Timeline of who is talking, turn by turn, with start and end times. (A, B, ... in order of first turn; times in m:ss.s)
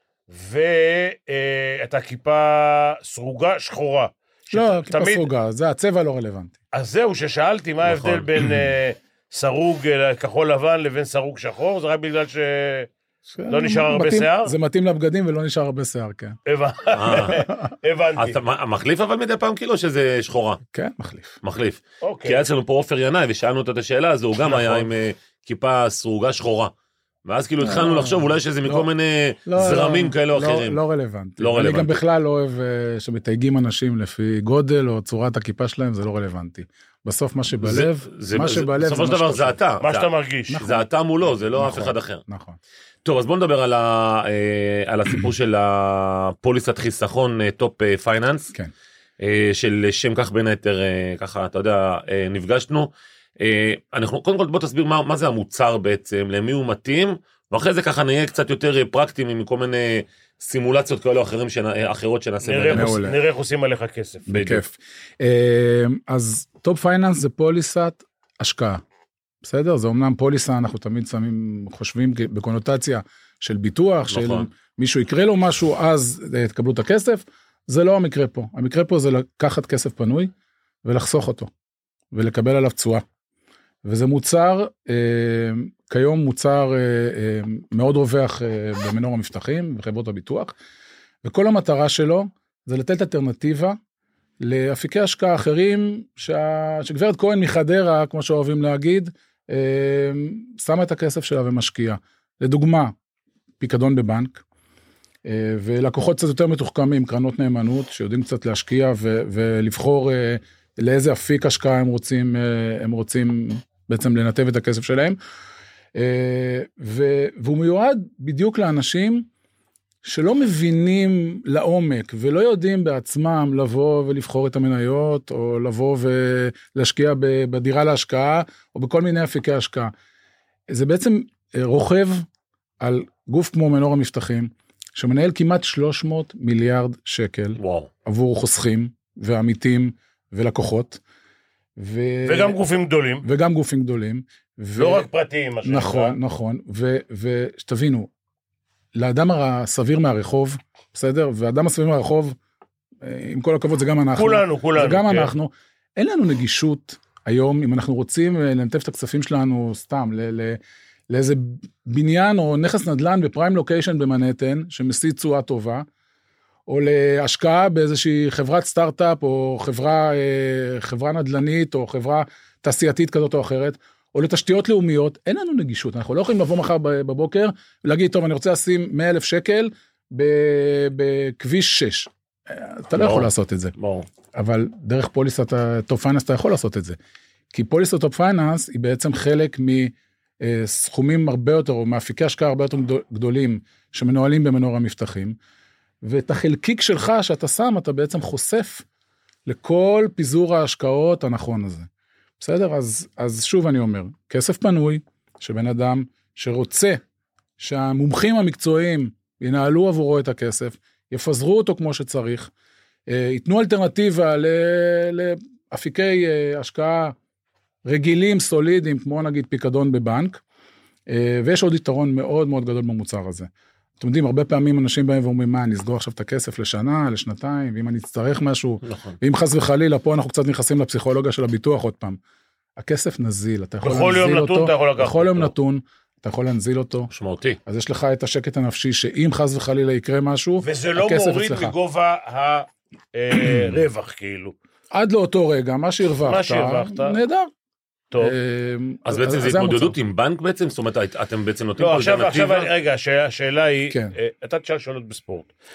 0:00.3-0:05.3 A
0:04.5-0:06.6 B
0:06.7-0:12.9 A
0:07.8-0:08.5 C
0:13.3-0:16.4 B
0:13.5-0:14.5 A
0:16.5-0:18.4 A
0:17.0-0:17.4 C
0:17.3-0:17.7 B
0:18.2-0:20.6 C
0:20.7-0:21.4 B
0:21.4-0:26.7 C
0:22.0-0:22.4 A
0:24.4-0:24.9 A
0:27.2-0:30.8 C
0:27.6-0:28.9 B
0:29.4-0:39.6 B
0:31.4-0:32.0 C
0:37.6-0:40.1 C
0:39.8-0:40.6 A
0:40.5-0:42.6 B
0:40.6-0:42.2 C
0:43.0-0:48.5 C
0:49.2-1:03.0 C
1:02.4-1:04.3 A
1:02.7-1:03.2 B
1:04.3-1:08.8 B
1:04.3-1:04.6 C
1:09.4-1:20.3 B
1:14.1-1:14.5 C
1:20.8-1:21.5 B
1:22.1-1:23.0 B
1:23.8-1:30.5 B
1:31.2-1:33.8 B
1:34.4-1:42.9 B
1:43.6-1:44.4 B
1:45.2-1:55.2 B
1:55.9-1:59.3 B
2:00.0-2:09.9 B
2:10.7-2:12.2 B
2:12.8-2:21.0 B
2:17.6-2:17.9 C
2:21.8-2:22.6 B
2:22.2-2:23.2 A
2:23.2-2:25.1 B
2:24.8-2:26.2 A
2:25.6-2:28.1 B
2:28.9-2:32.4 B
2:33.0-2:45.8 B
2:34.1-2:35.3 A
2:46.7-3:03.8 B
3:03.0-3:04.1 C
3:04.3-3:07.0 B
3:07.5-3:15.4 B
3:16.0-3:18.8 B
3:19.4-3:21.9 B
3:22.4-3:27.0 B
3:27.6-3:32.5 B
3:33.1-3:37.1 B
3:37.8-3:40.4 B
3:41.1-3:43.5 B
3:44.0-3:52.2 B
3:52.8-3:57.1 B
3:53.8-3:55.5 A
3:57.1-3:57.6 C
3:57.6-4:01.7 B
4:00.6-4:04.5 A
4:03.4-4:03.7 B
4:04.9-4:07.5 B
4:06.2-4:07.2 A
4:08.2-4:10.0 B
4:09.0-4:12.7 C
4:11.8-4:15.5 A
4:13.9-4:14.1 B